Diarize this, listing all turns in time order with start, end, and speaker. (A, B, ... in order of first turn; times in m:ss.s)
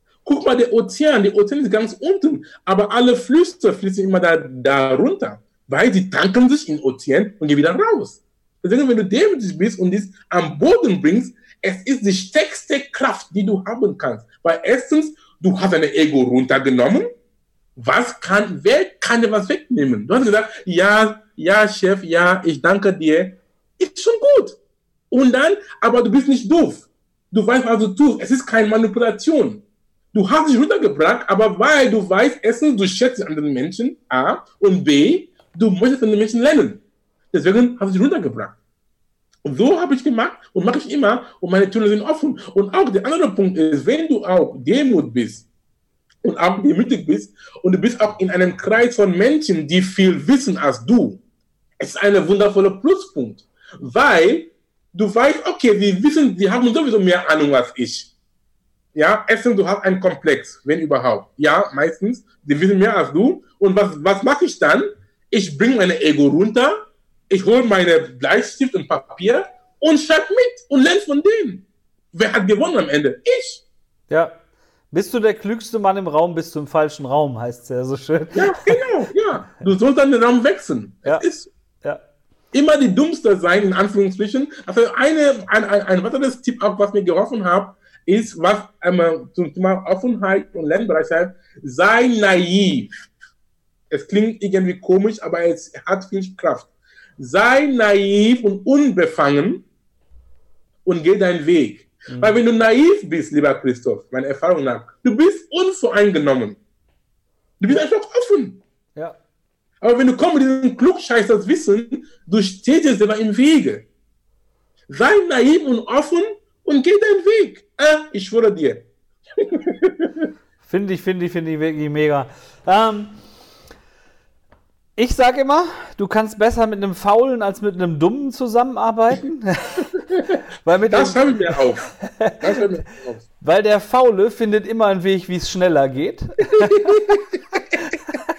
0:00.2-0:17.1 A
0:17.8-0:24.6 A
0:25.1-0:38.6 A
0:39.4-0:45.5 A
0:46.2-0:51.2 A
0:51.8-0:58.1 A
0:59.0-1:06.7 A
1:07.3-1:13.6 A
1:14.9-1:18.8 B
1:18.3-1:21.5 A
1:22.5-1:33.1 A
1:33.9-1:39.6 A
1:40.9-1:46.6 A
1:42.1-1:42.4 B
1:47.6-1:48.6 A
1:49.8-1:53.9 A
1:54.9-1:58.9 A
1:59.4-2:00.3 A
2:00.6-2:03.2 B
2:05.0-2:10.0 B
2:10.6-2:12.6 B
2:10.9-2:13.3 A
2:13.4-2:17.2 B
2:16.6-2:17.2 A